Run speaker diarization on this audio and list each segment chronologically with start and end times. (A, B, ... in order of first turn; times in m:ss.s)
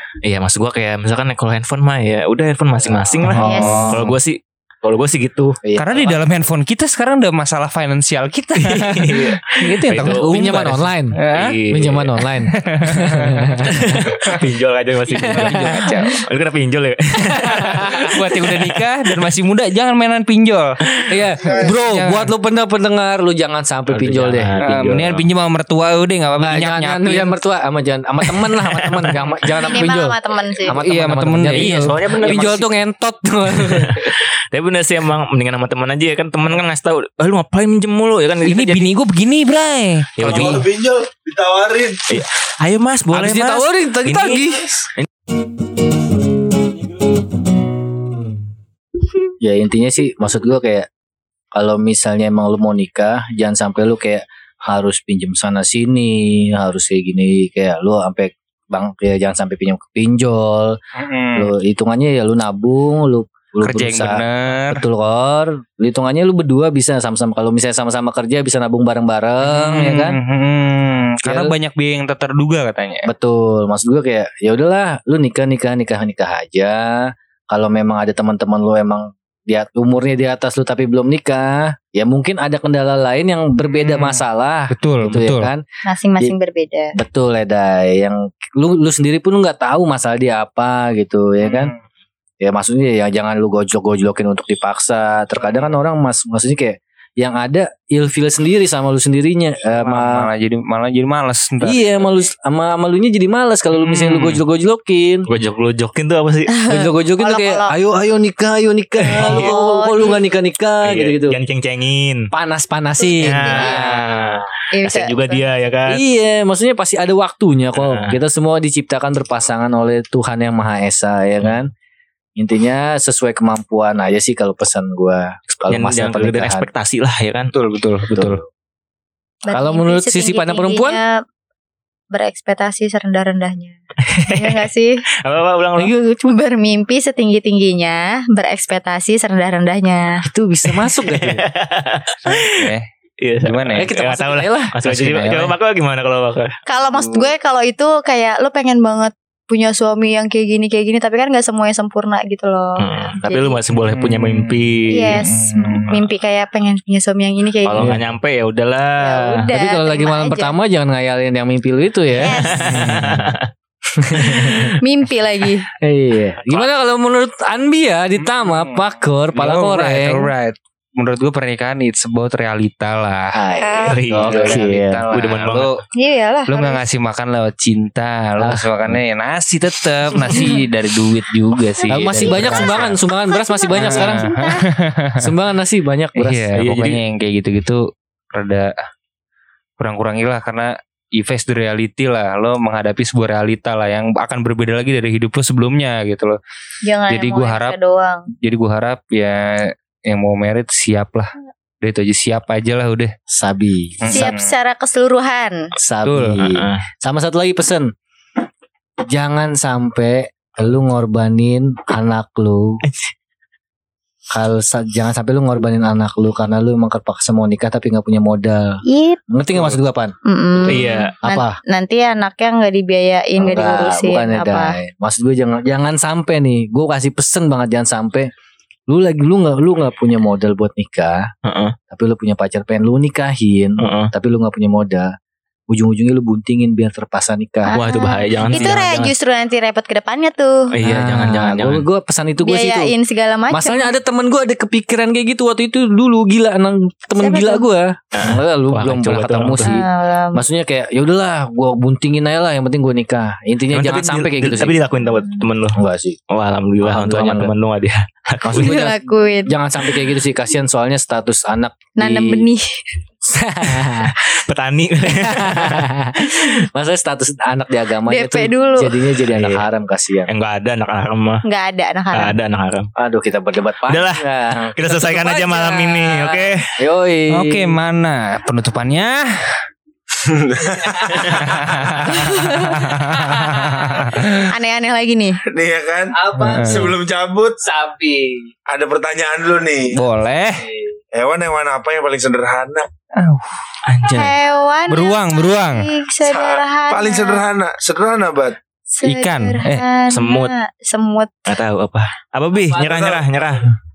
0:00.2-0:05.6 A
0:02.8-0:04.2 B
0:03.2-0:04.1 C
0:03.4-0:03.9 D
0:05.6-0:06.2 B
0:05.8-0:11.6 C
0:08.6-0:10.8 A
0:09.6-0:11.2 B
0:11.3-0:12.2 A
0:11.7-0:14.4 B
0:12.5-0:14.4 C
0:13.7-0:18.1 A
0:15.1-0:16.2 B
0:15.2-0:16.2 C
0:17.2-0:18.7 B
0:17.4-0:20.7 C
0:21.1-0:24.5 B
0:21.4-0:21.8 E
0:21.6-0:22.3 C
0:23.9-0:25.2 A
0:24.6-0:27.4 C
0:26.4-0:30.2 B
0:28.3-0:28.6 C
0:29.7-0:30.8 D
0:30.7-0:32.5 C
0:30.7-0:34.1 B
0:31.4-0:32.7 A
0:33.6-0:38.9 A
0:38.5-0:40.7 C
0:40.2-0:40.7 A
0:40.2-0:42.1 E
0:42.1-0:45.1 A
0:43.1-0:44.9 B
0:49.4-0:50.9 B
0:51.5-1:00.8 B
1:01.0-1:01.5 C
1:01.4-1:10.2 B
1:03.6-1:04.8 C
1:09.4-1:13.1 C
1:11.2-1:11.5 B
1:13.1-1:25.6 B
1:23.8-1:25.5 C
1:25.8-1:27.0 D
1:27.0-1:31.7 B
1:32.4-1:40.3 B
1:39.8-1:41.9 C
1:41.6-1:45.3 B
1:43.8-1:44.4 A
1:45.3-1:46.5 A
1:46.5-1:47.7 D
1:46.7-1:51.4 B
1:49.0-1:49.5 A
1:49.1-1:50.2 D
1:50.8-1:52.3 A
1:52.3-1:54.4 B
1:53.0-1:54.0 D
1:53.2-1:56.0 A
1:54.7-1:55.4 D
1:55.9-2:01.7 B
1:57.8-1:58.2 A
2:02.4-2:06.7 B
2:05.7-2:07.5 A
2:07.5-2:08.4 C
2:08.1-2:08.5 B
2:09.5-2:11.2 D
2:09.5-2:11.0 B
2:12.1-2:15.0 D
2:14.1-2:14.7 A
2:15.2-2:15.9 A
2:15.8-2:20.2 D
2:20.3-2:21.5 B
2:20.7-2:26.6 A
2:22.3-2:22.9 C
2:23.4-2:23.9 C
2:23.8-2:24.8 B
2:24.8-2:25.6 C
2:26.7-2:33.6 D
2:26.9-2:27.3 C
2:32.8-2:35.2 A
2:33.7-2:36.1 C
2:34.9-2:37.9 D
2:37.6-2:39.5 A
2:39.0-2:40.6 D
2:39.5-2:42.4 B
2:42.1-2:42.9 D
2:42.3-2:43.5 A
2:42.6-2:43.3 C
2:43.9-2:44.8 B
2:44.3-2:45.7 D
2:45.8-2:50.3 B
2:46.4-2:46.7 A
2:48.2-2:53.4 C
2:53.3-2:55.1 B
2:53.6-2:54.0 D
2:53.8-2:55.8 A
2:54.1-2:55.8 C
2:55.9-2:56.8 D
2:56.5-3:02.9 C
2:58.4-2:59.0 B
3:00.3-3:00.6 D
3:01.9-3:04.6 D
3:01.9-3:04.3 B
3:03.8-3:05.3 C
3:05.2-3:06.5 B
3:06.2-3:08.8 C
3:06.6-3:07.0 A
3:09.8-3:16.4 C
3:16.8-3:18.3 D
3:17.1-3:17.8 C
3:18.3-3:23.1 C
3:23.3-3:24.3 B
3:24.0-3:24.5 C
3:24.1-3:25.7 D
3:25.8-3:27.9 B
3:26.0-3:26.4 C
3:26.4-3:26.8 A
3:29.1-3:32.8 B
3:32.9-3:33.1 A
3:34.3-3:41.6 B
3:38.8-3:39.2 D
3:39.5-3:39.8 A
3:40.3-3:44.8 D
3:40.7-3:41.1 A
3:43.4-3:48.3 B
3:48.9-3:51.3 B
3:51.4-3:51.8 A
3:51.9-3:55.1 B
3:53.8-3:54.1 A
3:55.7-3:57.8 B
3:57.7-4:00.7 D
3:57.7-3:59.1 A
3:58.4-3:58.8 B
4:00.7-4:01.9 A
4:00.8-4:02.9 B
4:02.4-4:03.9 D
4:03.5-4:14.8 B
4:07.2-4:07.7 D
4:08.1-4:09.7 A
4:09.6-4:10.4 D
4:13.7-4:15.8 A
4:15.8-4:16.2 B
4:16.3-4:18.8 A
4:16.8-4:17.5 B
4:18.4-4:22.5 B
4:18.5-4:19.6 D
4:22.0-4:22.9 D
4:23.3-4:24.2 B
4:23.6-4:25.9 A
4:25.2-4:30.3 B
4:28.1-4:29.0 D
4:29.3-4:29.7 A
4:30.3-4:31.4 A
4:31.4-4:32.4 D
4:32.1-4:32.9 A
4:33.0-4:37.8 B
4:33.9-4:34.2 A
4:34.8-4:36.6 A
4:37.3-4:39.6 C
4:40.3-4:41.4 E
4:40.8-4:41.4 B
4:41.2-4:44.5 C
4:42.1-4:42.8 D
4:42.9-4:44.2 B
4:44.0-4:45.4 D
4:45.5-4:47.6 E
4:46.1-4:47.0 B
4:46.4-4:46.9 C
4:47.6-4:48.5 B
4:48.7-4:50.0 E
4:49.9-4:50.6 C
4:50.4-4:51.0 B
4:51.1-4:52.8 E
4:53.2-4:53.6 C
4:53.9-4:54.4 A
4:54.1-4:57.4 D
4:54.9-4:55.9 C
4:56.3-4:58.6 E
4:58.9-5:01.3 D
4:59.0-4:59.8 C
5:00.1-5:00.5 A
5:01.5-5:03.7 A
5:02.8-5:03.2 E